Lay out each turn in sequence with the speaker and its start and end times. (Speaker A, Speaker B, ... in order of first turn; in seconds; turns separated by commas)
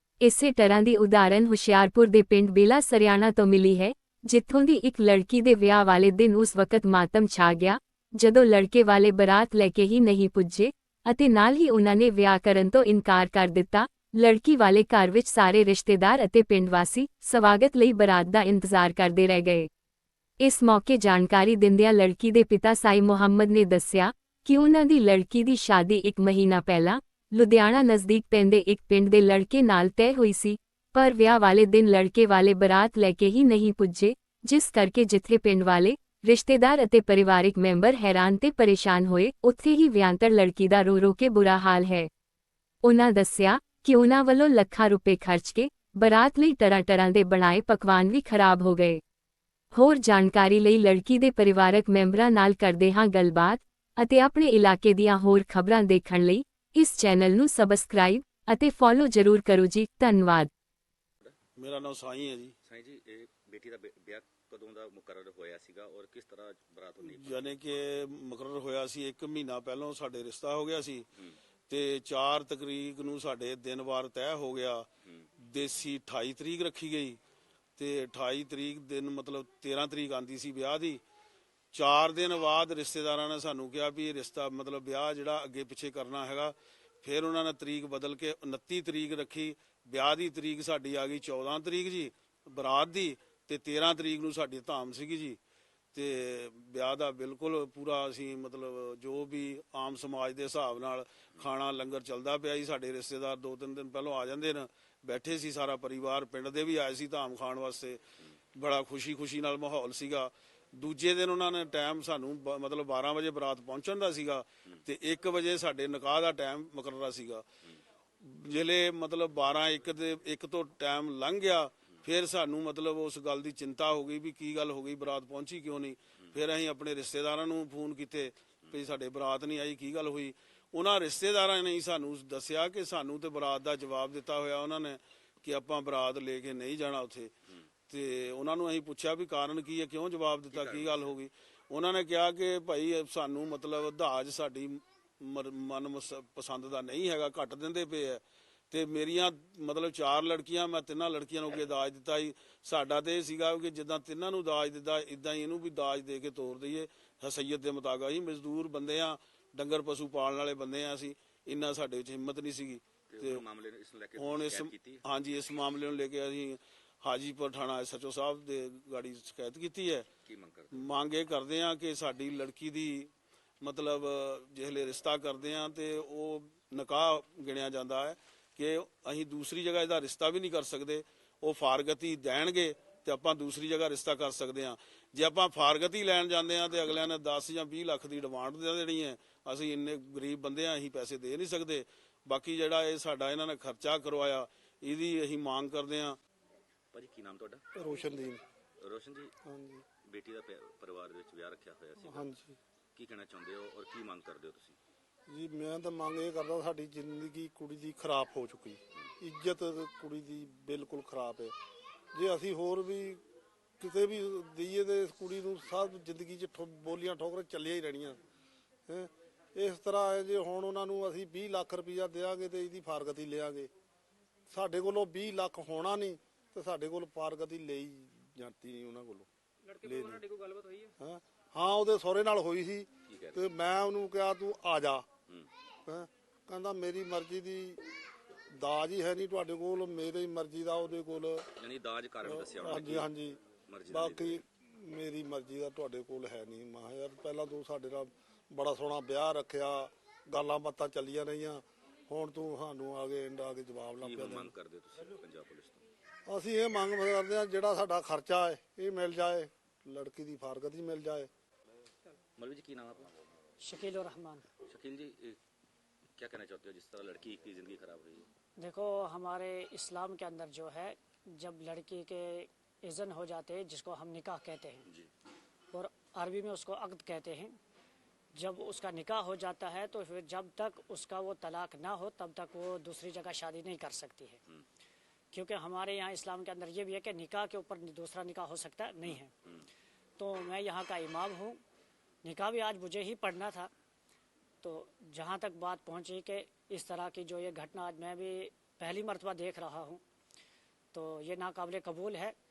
Speaker A: 0.2-19.7, Speaker A: 20.4-42.1, Speaker A: 42.8-49.0, Speaker A: 49.7-60.5, Speaker B: 61.6-62.5, Speaker C: 62.6-67.6, Speaker B: 67.2-71.1, Speaker B: 71.7-74.9, Speaker B: 75.4-77.2, Speaker B: 77.8-81.0, Speaker B: 81.7-95.4, Speaker B: 95.9-108.0, Speaker B: 108.5-117.4, Speaker B: 118.2-137.3, Speaker B: 137.9-163.4, Speaker C: 140.5-141.1, Speaker C: 163.1-165.0, Speaker B: 164.2-170.1, Speaker C: 170.3-170.9, Speaker B: 170.7-173.1, Speaker B: 173.6-196.2, Speaker C: 196.9-197.6, Speaker D: 197.8-198.4, Speaker C: 198.8-199.3, Speaker D: 199.4-199.8, Speaker C: 200.1-202.3, Speaker D: 202.1-202.6, Speaker C: 202.9-204.8, Speaker D: 205.3-211.6, Speaker D: 212.1-213.2, Speaker D: 213.8-218.2, Speaker D: 218.9-223.7, Speaker D: 224.5-230.4, Speaker D: 231.0-235.1, Speaker C: 233.1-233.4, Speaker D: 235.9-237.8, Speaker D: 238.5-241.5, Speaker C: 241.6-243.1, Speaker D: 242.2-254.5, Speaker C: 243.7-244.4, Speaker C: 254.0-255.8, Speaker D: 256.3-261.3, Speaker C: 262.4-263.1, Speaker E: 263.6-264.4, Speaker C: 264.7-265.4, Speaker C: 266.2-268.3, Speaker E: 268.6-274.9, Speaker E: 275.7-277.6, Speaker E: 278.3-284.4, Speaker E: 285.3-289.3, Speaker C: 289.0-289.7, Speaker E: 290.2-291.6, Speaker E: 292.2-293.7, Speaker E: 294.6-300.0, Speaker E: 300.9-302.4